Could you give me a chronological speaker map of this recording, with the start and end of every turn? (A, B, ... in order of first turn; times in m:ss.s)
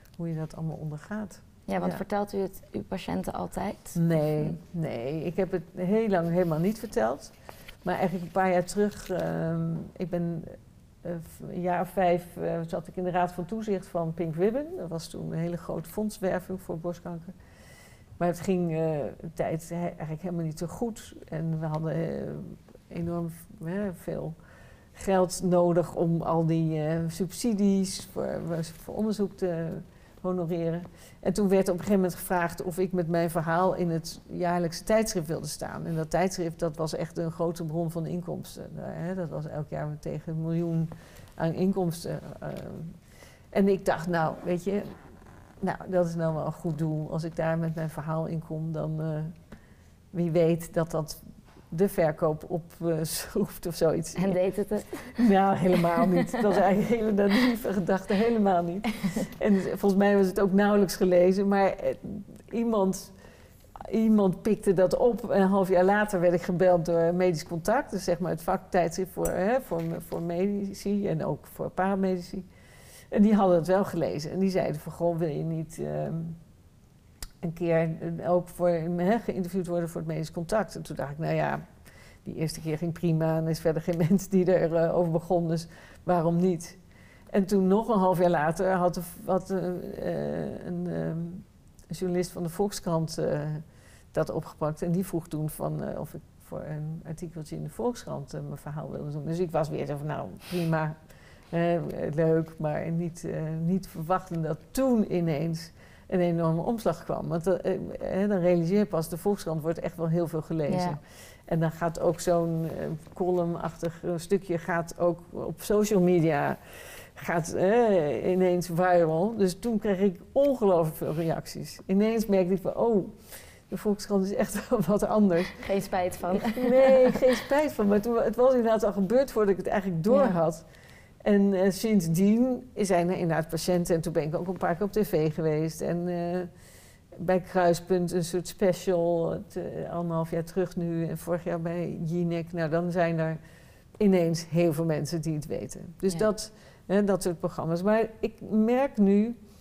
0:00.2-0:02.0 A
0:01.7-0:04.5 B
0:03.9-0:17.3 A
0:18.2-0:24.4 A
0:24.9-0:43.0 A
0:43.5-0:45.0 A
0:45.6-0:49.4 A
0:50.1-0:54.4 A
0:54.2-0:55.2 B
0:55.0-1:03.1 A
0:56.0-0:56.4 B
1:03.8-1:12.4 A
1:13.1-1:16.4 A
1:17.4-1:21.7 A
1:22.2-1:26.8 A
1:27.3-2:05.6 A
1:50.7-1:51.0 B
2:05.6-2:07.2 B
2:06.2-2:10.6 A
2:10.1-2:10.3 B
2:11.2-2:16.5 A
2:17.1-2:23.4 A
2:24.0-2:29.4 A